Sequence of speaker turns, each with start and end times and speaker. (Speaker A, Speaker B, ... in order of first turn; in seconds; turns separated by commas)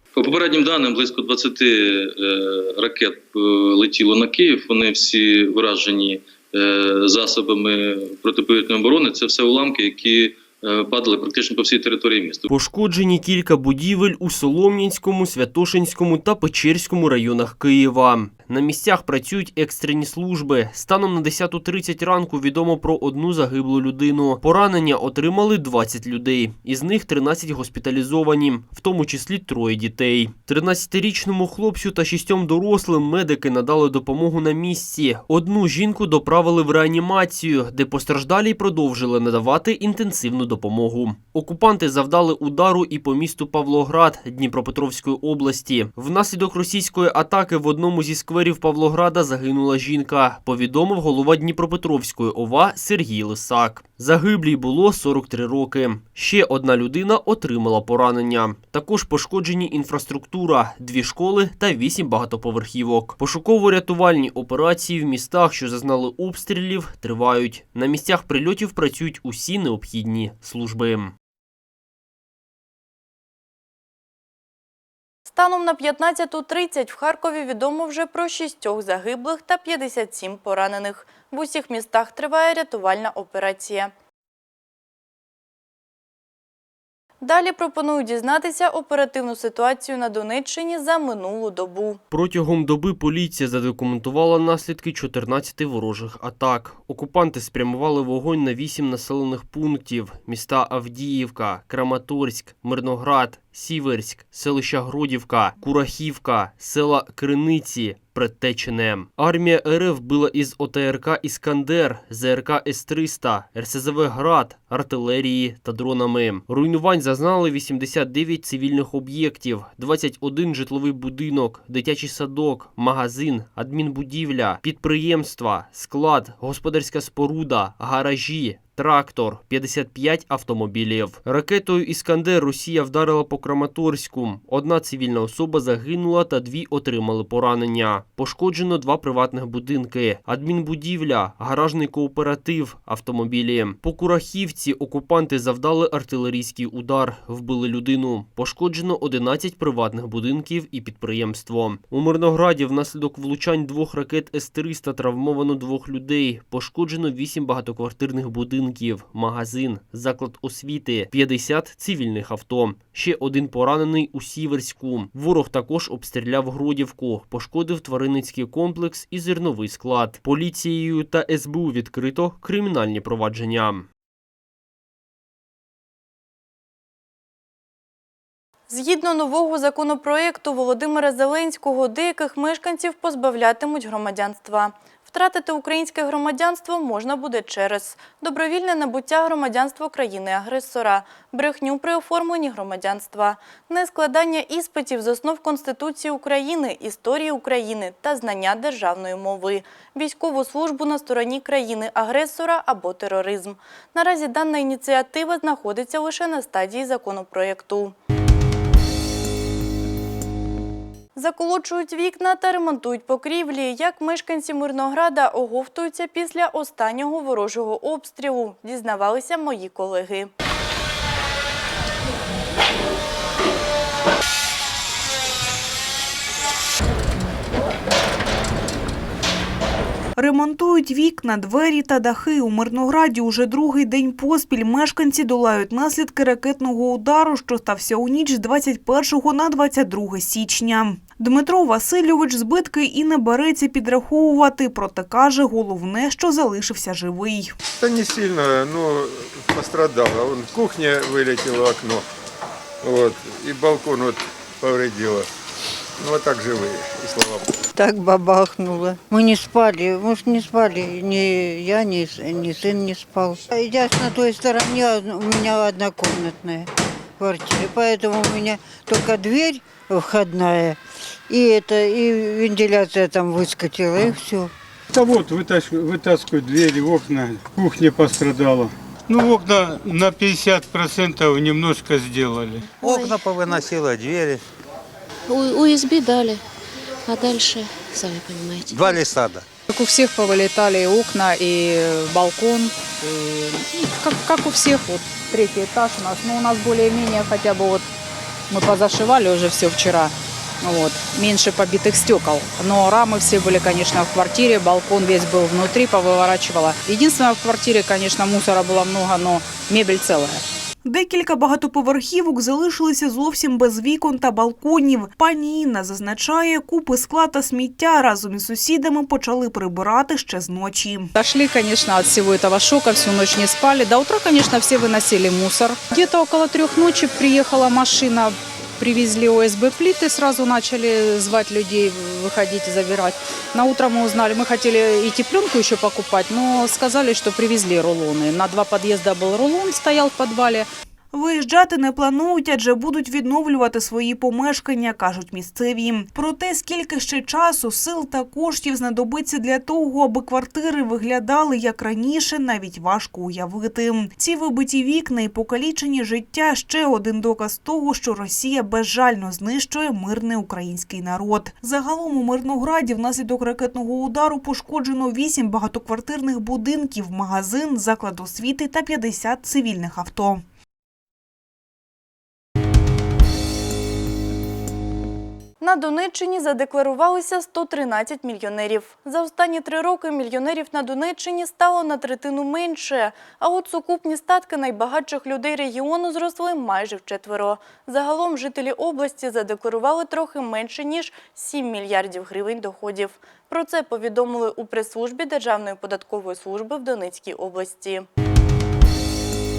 Speaker A: 0.1-12.5, Speaker B: 12.5-71.1, Speaker C: 75.3-83.9, Speaker C: 87.2-92.0, Speaker B: 92.1-173.8, Speaker C: 178.7-207.9, Speaker C: 211.2-220.3, Speaker D: 230.2-247.5, Speaker E: 247.7-252.1, Speaker E: 252.8-255.3, Speaker E: 256.0-257.5, Speaker F: 257.7-266.7, Speaker F: 267.2-274.5, Speaker G: 274.9-282.7, Speaker H: 282.8-283.2, Speaker I: 282.8-284.4, Speaker H: 285.3-286.4, Speaker H: 287.0-289.1, Speaker I: 288.7-289.4, Speaker J: 289.7-297.9, Speaker J: 298.5-310.4, Speaker D: 310.8-321.1, Speaker J: 321.1-340.7, Speaker D: 341.1-370.4, Speaker C: 375.6-398.1